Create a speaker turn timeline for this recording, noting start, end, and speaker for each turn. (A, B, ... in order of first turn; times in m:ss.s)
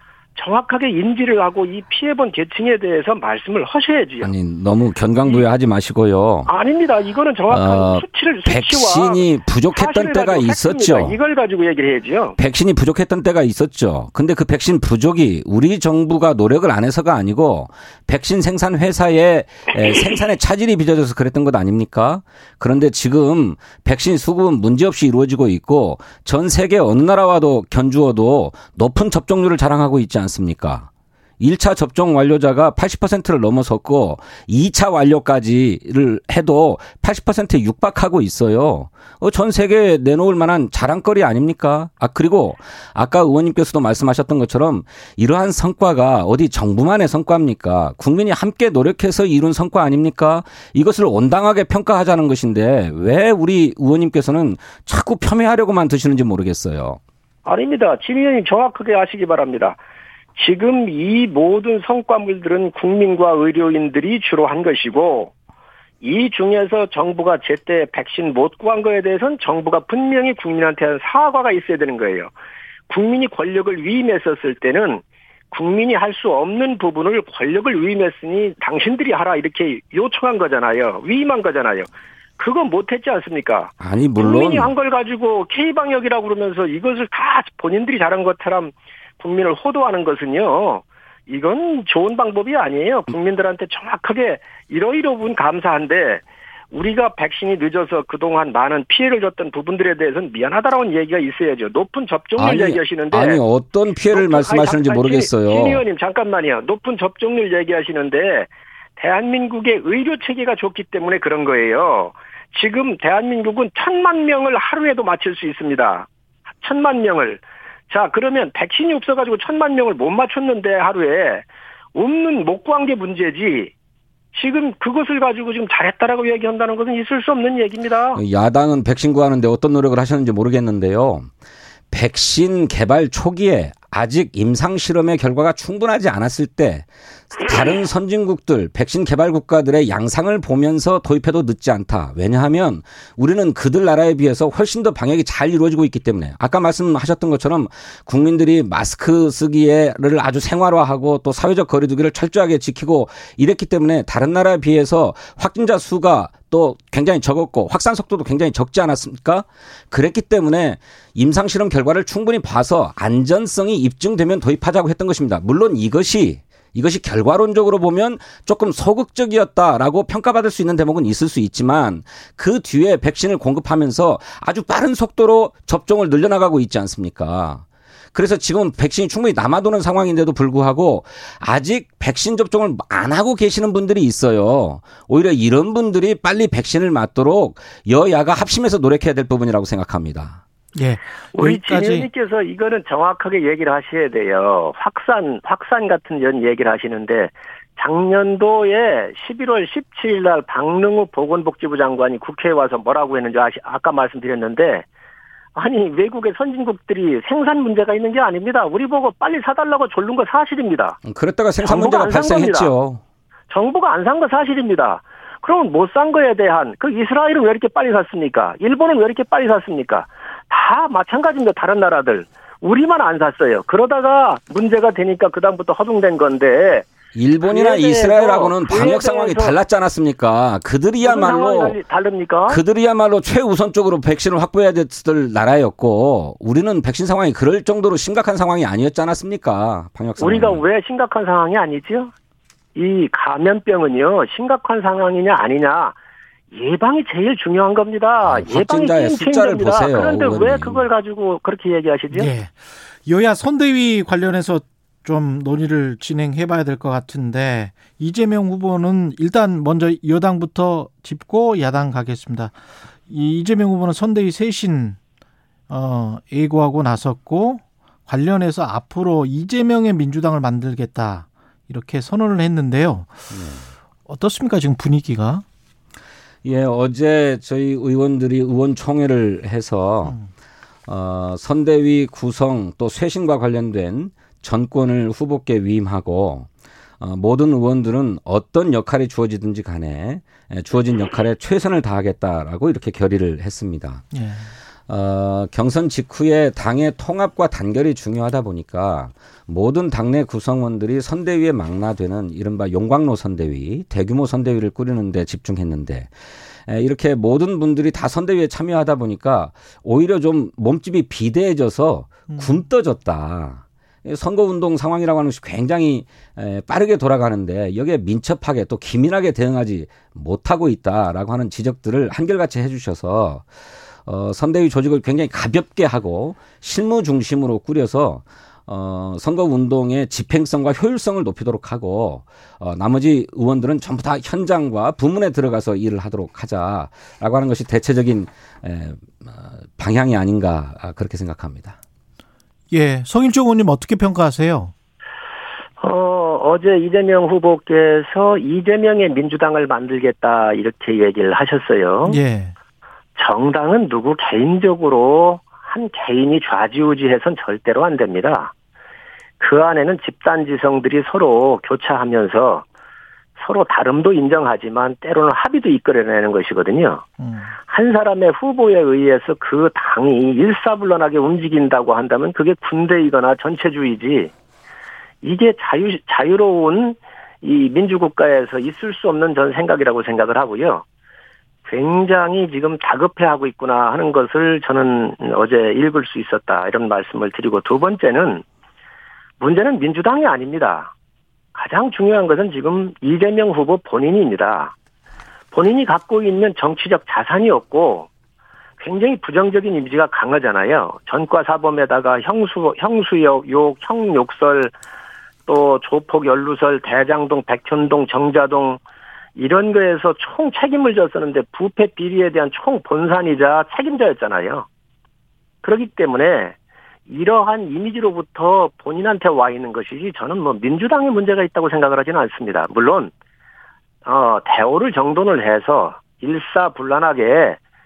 0:00.3-0:04.3 A
0:04.2-0:06.5 B
0:06.4-0:12.4 A
0:07.5-0:11.2 B
0:12.4-0:30.9 B
0:31.4-0:57.0 B
0:57.4-0:59.8 A
1:00.4-1:05.3 A
1:06.0-1:12.3 A
1:12.9-1:43.4 A
1:23.8-1:24.7 B
1:42.4-1:45.8 B
1:44.1-1:56.1 A
1:56.6-2:03.7 A
2:04.3-2:08.2 A
2:08.1-2:11.3 B
2:11.9-2:57.6 B
2:58.1-3:10.4 B
3:10.7-3:12.1 C
3:11.3-3:24.8 A
3:25.5-3:31.0 A
3:31.0-3:33.0 B
3:31.6-3:32.7 A
3:33.5-3:46.9 A
3:47.1-3:51.8 B
3:47.4-3:49.6 A
3:51.0-3:52.6 A
3:52.5-4:00.6 B
4:00.2-4:02.1 A
4:02.7-4:06.0 A
4:06.5-4:12.3 A
4:08.2-4:10.8 B
4:12.1-4:12.5 C
4:13.0-4:22.5 C
4:23.1-4:25.0 C
4:25.7-4:33.2 C
4:33.3-4:33.6 B
4:34.1-4:35.4 C
4:36.4-4:40.1 B
4:40.9-4:46.5 B
4:47.0-4:54.0 B
4:54.1-4:54.5 C
4:54.9-5:06.1 B
5:06.7-5:23.4 B
5:24.0-5:41.8 B
5:42.7-5:44.7 C
5:45.8-5:52.2 A
5:52.0-5:52.5 C
5:53.2-5:58.5 A
5:59.4-6:02.6 A
6:03.4-6:07.0 A
6:07.2-6:07.5 C
6:07.6-6:14.3 A
6:15.2-6:20.8 A
6:21.6-6:28.4 A
6:29.4-6:30.9 A
6:31.5-6:34.7 A
6:35.5-6:38.1 A
6:38.8-6:44.7 A
6:45.5-6:48.8 A
6:49.4-6:54.7 A
6:55.6-6:56.5 A
6:57.1-7:03.1 A
7:04.0-7:07.6 A